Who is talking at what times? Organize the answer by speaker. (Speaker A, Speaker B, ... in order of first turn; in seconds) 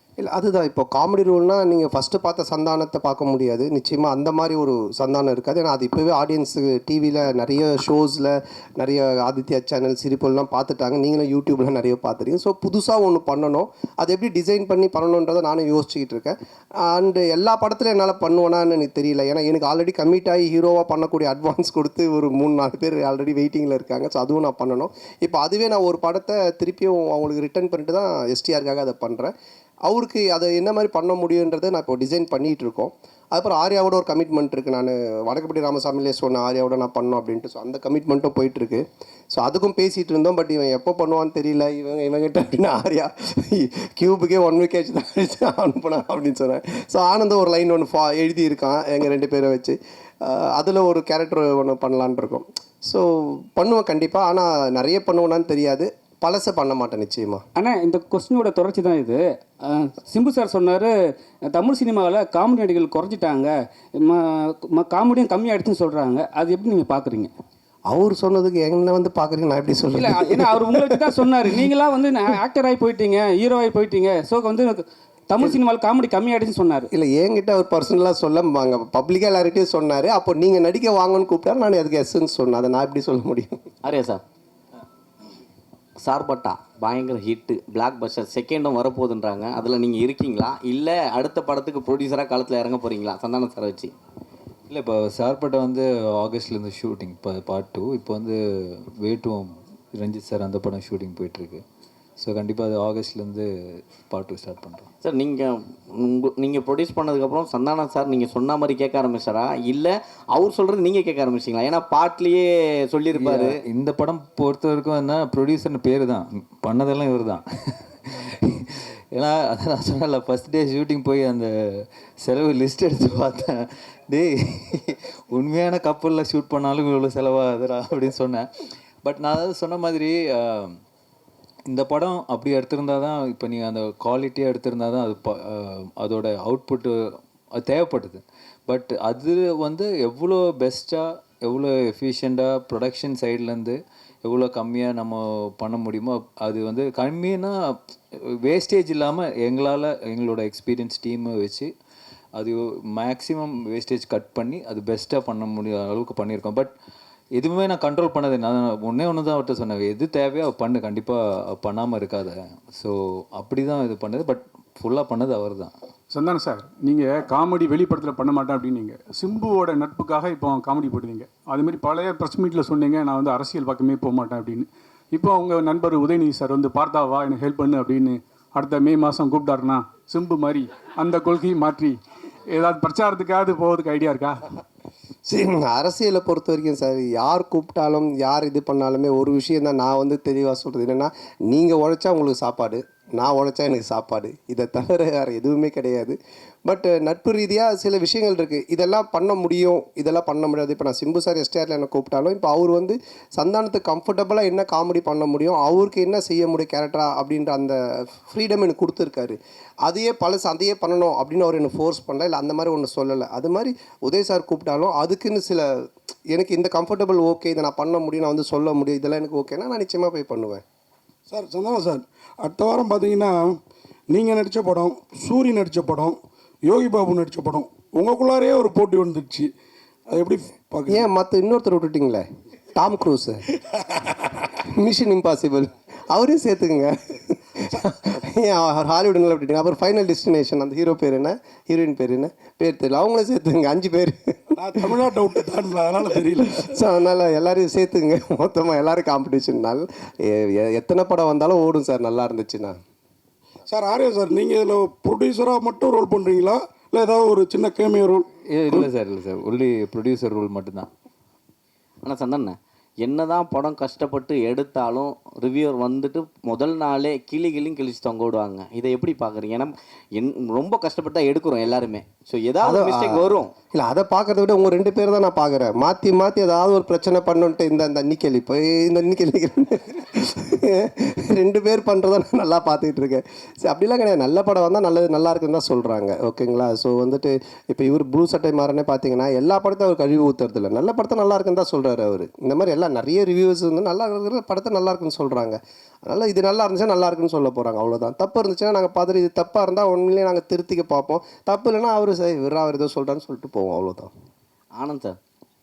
Speaker A: 0.2-29.3, 29.8-57.4, 67.9-71.3, 76.9-83.6, 185.3-220.6, 230.9-233.4, 234.5-245.1, 246.5-252.8, 272.6-304.1
Speaker B: 57.5-60.9, 61.5-67.3, 69.9-76.9
Speaker C: 83.8-84.2, 86.0-93.9, 105.0-113.6, 262.0-273.5, 304.8-305.2
Speaker D: 94.7-101.6, 102.2-103.5, 104.0-104.9, 113.1-117.4, 118.0-128.5, 129.0-130.8, 131.7-151.7, 152.3-156.7, 157.4-165.7, 258.5-260.9
Speaker E: 166.1-182.0, 182.5-184.4
Speaker F: 221.3-223.5, 224.1-226.2, 226.7-229.5, 230.1-231.1, 244.6-246.7, 253.7-258.9